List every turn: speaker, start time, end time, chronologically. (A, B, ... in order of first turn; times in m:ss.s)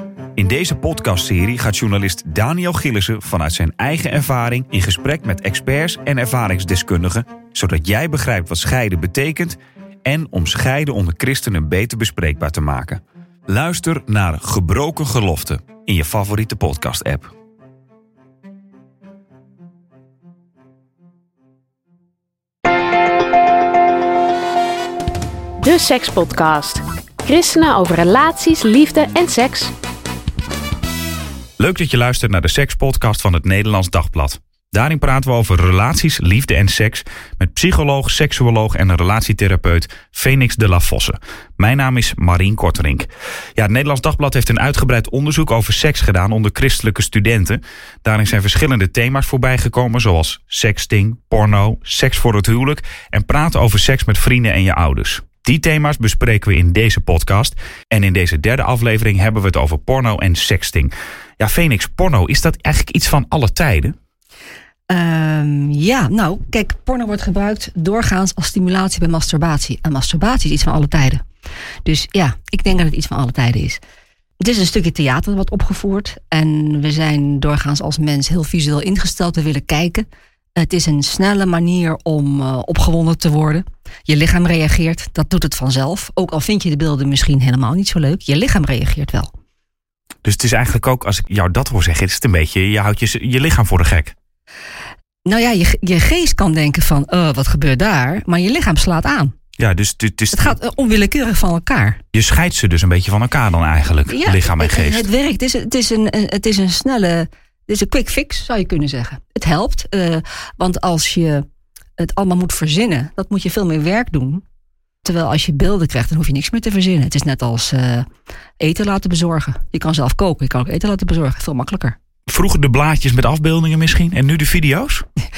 0:00.4-0:17.3 A
0:25.6-0:29.7 B
0:31.6-1:04.0 A
1:04.9-1:11.2 C
1:11.8-1:13.8 C
1:14.4-1:29.3 C
1:30.2-1:34.1 A
1:35.2-1:39.3 C
1:39.6-1:40.6 A
1:40.3-1:42.0 C
1:42.1-1:45.1 A
1:44.1-1:51.5 C
1:52.0-1:54.4 C
1:55.0-1:58.1 C
1:58.6-2:02.0 C
2:02.3-2:05.1 A